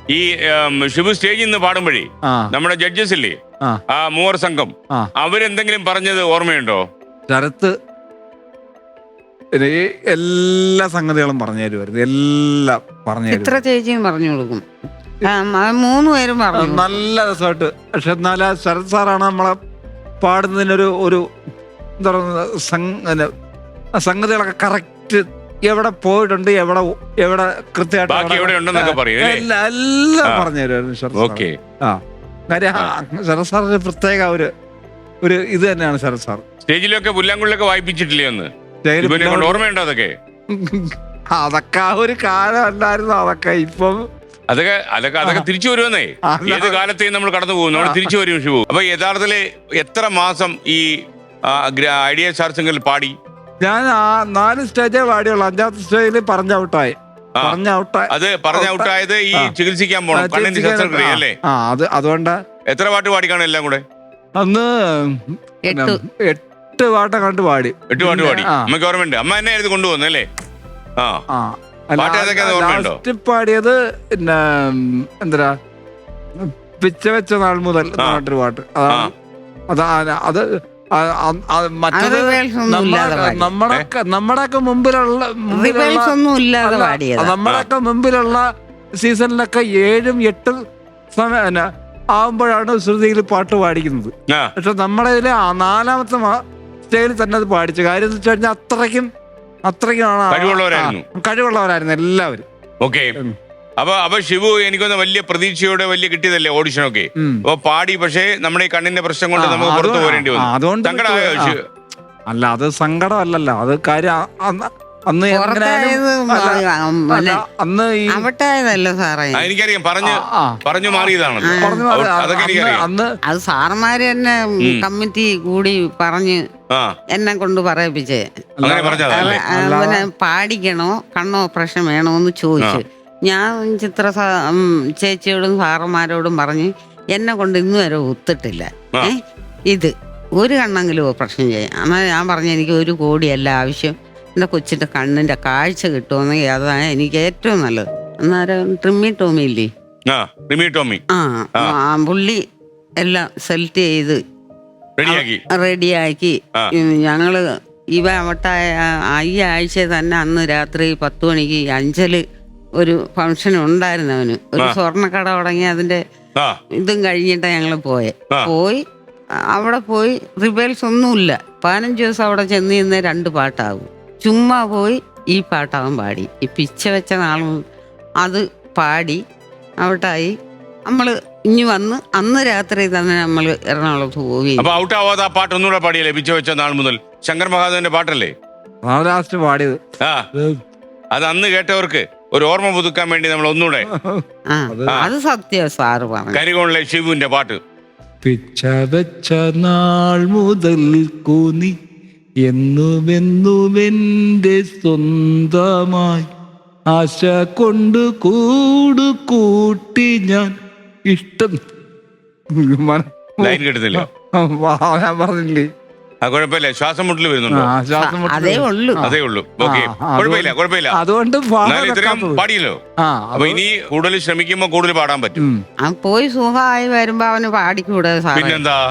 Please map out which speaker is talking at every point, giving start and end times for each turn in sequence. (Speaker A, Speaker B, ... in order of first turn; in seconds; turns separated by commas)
Speaker A: 0.1-3.4, Speaker A: 3.9-6.8, Speaker B: 7.3-7.7, Speaker B: 9.5-13.6, Speaker C: 13.3-14.6, Speaker C: 15.2-17.0, Speaker B: 16.5-19.6, Speaker B: 20.2-21.2, Speaker B: 22.0-23.3, Speaker B: 24.0-34.5, Speaker A: 28.1-29.4, Speaker A: 31.1-31.5, Speaker B: 35.2-36.4, Speaker A: 36.6-38.5, Speaker B: 38.8-39.6, Speaker A: 39.0-40.1, Speaker B: 40.5-44.0, Speaker A: 44.5-50.9, Speaker B: 46.3-46.8, Speaker B: 47.7-48.1, Speaker A: 51.5-53.1, Speaker B: 53.6-59.5, Speaker A: 58.1-61.3, Speaker B: 60.1-62.4, Speaker A: 62.7-63.8, Speaker B: 64.4-68.7, Speaker C: 65.7-66.0, Speaker A: 67.9-70.3, Speaker B: 71.3-75.5, Speaker A: 72.0-73.0, Speaker B: 76.4-79.1, Speaker B: 79.7-88.5, Speaker C: 81.9-83.5, Speaker C: 85.5-87.3, Speaker B: 89.0-90.6, Speaker B: 91.1-96.3, Speaker B: 96.9-99.1, Speaker B: 99.7-102.4, Speaker A: 100.3-101.0, Speaker A: 102.8-103.1, Speaker A: 103.8-111.6, Speaker B: 107.2-107.4, Speaker B: 109.4-111.6, Speaker B: 112.3-118.3, Speaker C: 115.3-117.4, Speaker C: 118.1-119.5, Speaker A: 119.3-122.8, Speaker B: 120.0-120.6, Speaker C: 121.0-121.8, Speaker B: 121.6-123.1, Speaker C: 123.3-126.4, Speaker C: 127.1-128.2, Speaker B: 128.6-130.1, Speaker A: 128.6-129.4, Speaker C: 129.1-139.2, Speaker C: 139.7-149.7, Speaker A: 150.1-151.0, Speaker C: 151.1-152.4, Speaker C: 153.0-154.2, Speaker A: 155.0-155.4, Speaker C: 155.1-157.4, Speaker C: 157.9-162.2, Speaker C: 162.8-166.0, Speaker C: 166.8-168.8, Speaker C: 169.5-177.6, Speaker C: 178.2-179.2, Speaker C: 179.8-180.3, Speaker C: 180.9-184.7, Speaker A: 184.6-188.3, Speaker B: 188.8-189.8, Speaker B: 190.3-190.6, Speaker A: 191.1-193.9, Speaker B: 193.9-195.0, Speaker C: 194.5-196.4, Speaker A: 196.3-197.6, Speaker B: 198.2-201.7, Speaker B: 202.4-206.3, Speaker B: 206.9-210.5, Speaker B: 211.1-211.6, Speaker B: 212.6-215.7, Speaker A: 213.4-214.1, Speaker A: 216.2-217.7, Speaker B: 217.5-222.4, Speaker C: 217.9-219.0, Speaker A: 219.0-220.9, Speaker A: 221.6-222.8, Speaker B: 223.0-223.6, Speaker A: 223.3-225.4, Speaker C: 225.8-228.6, Speaker A: 228.3-228.8